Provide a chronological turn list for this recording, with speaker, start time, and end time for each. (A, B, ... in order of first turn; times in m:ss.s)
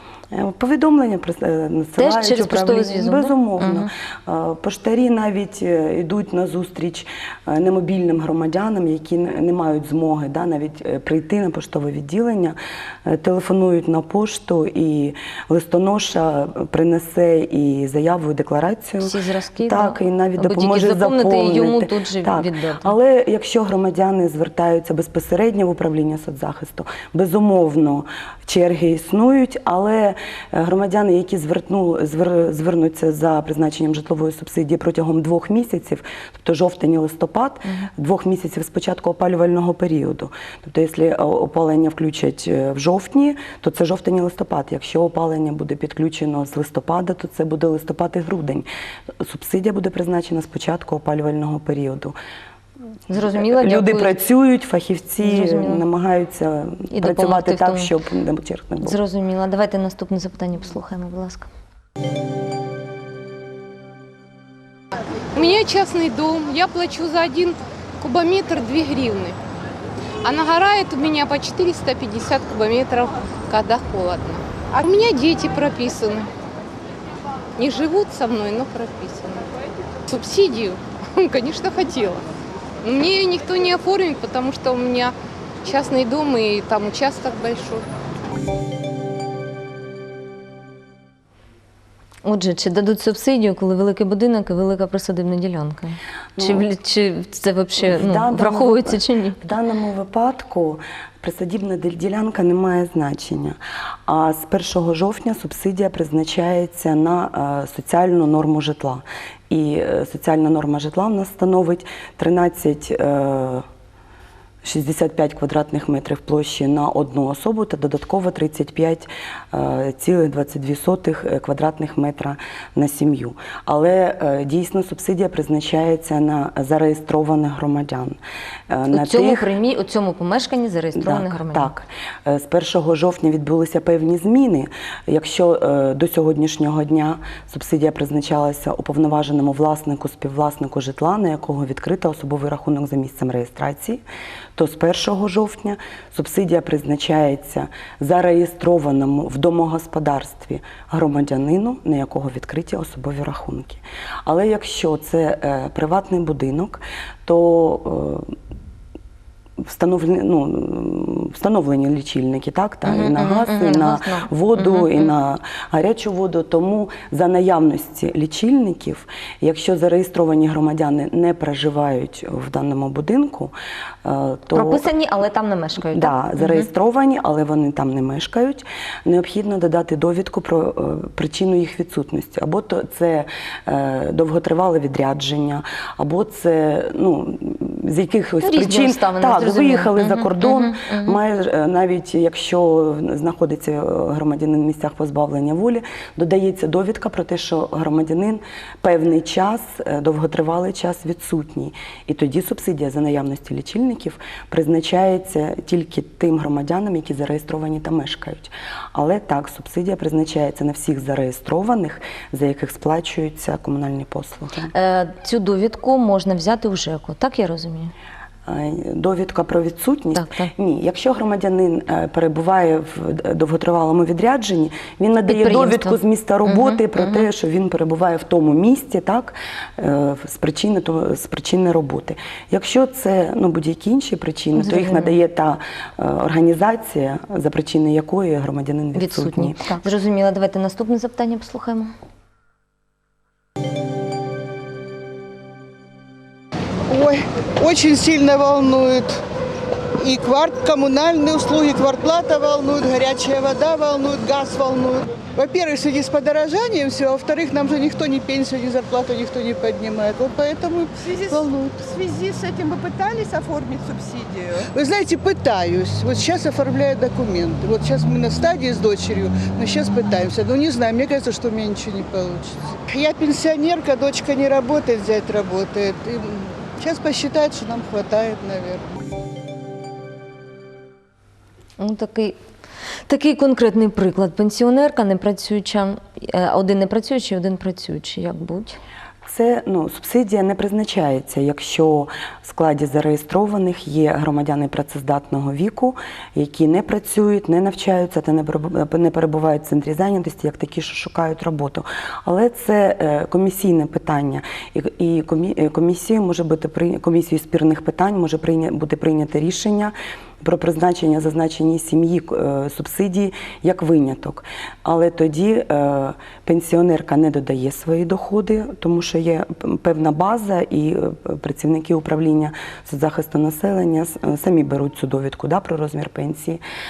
0:00.3-0:48.7 A
0:02.0-0:03.9 B
0:19.0-0:23.0 B
0:49.2-0:52.2 A
0:53.1-0:54.2 B
0:53.2-0:59.0 A
0:55.2-0:55.8 B
0:56.9-0:57.9 B
0:58.8-1:01.5 B
1:05.3-1:09.4 C
1:10.2-1:16.3 C
1:17.6-1:19.5 C
1:20.1-1:22.2 C
1:22.8-1:27.8 C
1:32.2-1:39.4 B
1:36.4-1:36.7 A
1:37.8-1:53.7 A
1:54.6-2:09.5 A
2:08.9-2:11.7 B
2:11.0-2:24.0 A
2:24.6-2:38.3 A
2:39.6-2:54.9 A
2:42.9-2:45.1 B
2:54.5-2:56.7 B
2:55.9-3:34.7 A
3:08.4-3:11.2 B
3:34.7-3:37.9 B
3:38.5-3:59.6 A
3:40.1-3:40.5 B
3:45.2-3:47.3 B
3:54.6-3:55.2 B
3:59.0-4:01.9 B
4:06.9-4:09.2 D
4:10.0-4:23.1 D
4:22.3-4:24.6 E
4:24.7-4:38.9 D
4:41.8-4:42.4 B
4:43.1-4:48.8 B
4:49.2-5:26.6 A